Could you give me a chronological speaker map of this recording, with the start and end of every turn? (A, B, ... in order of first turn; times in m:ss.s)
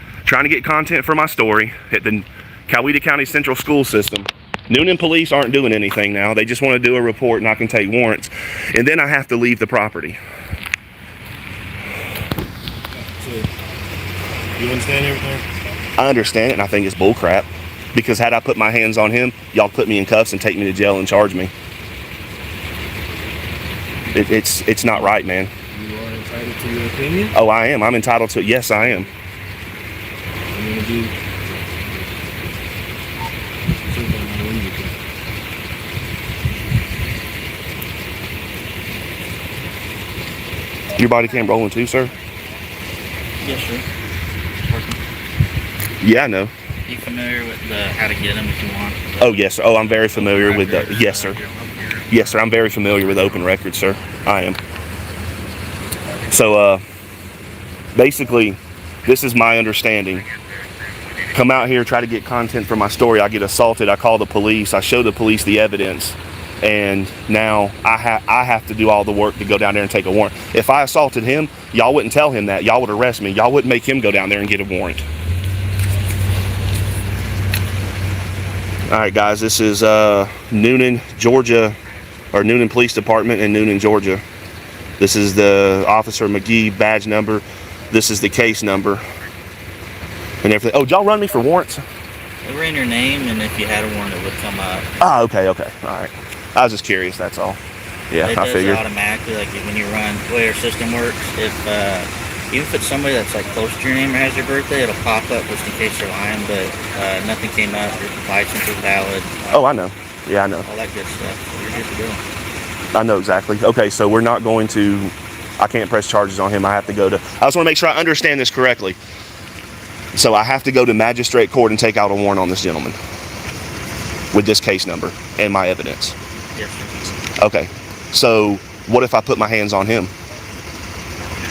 0:00.3-0:10.2 A
0:12.9-0:13.5 B
0:14.6-0:15.5 B
0:16.0-0:21.5 A
0:24.1-0:25.5 A
0:25.7-0:27.4 B
0:27.4-0:29.1 A
0:30.5-0:32.3 B
0:33.8-0:35.0 B
0:41.0-0:42.1 A
0:43.4-0:43.9 C
0:44.6-0:45.0 C
0:46.0-0:46.5 A
0:46.9-0:52.1 C
0:49.2-0:51.4 A
0:52.1-0:54.6 A
0:56.3-0:56.8 A
0:57.9-1:00.3 A
1:01.3-1:15.1 A
1:18.9-1:21.8 A
1:22.3-1:24.2 A
1:25.0-1:29.0 A
1:30.4-1:31.8 A
1:32.4-1:34.9 C
1:35.0-1:37.6 A
1:38.1-1:38.8 A
1:38.2-1:49.7 C
1:49.5-1:50.7 A
1:50.6-1:52.2 C
1:52.9-1:59.0 A
2:00.1-2:03.0 A
2:04.3-2:06.2 A
2:06.6-2:07.0 C
2:07.4-2:10.1 A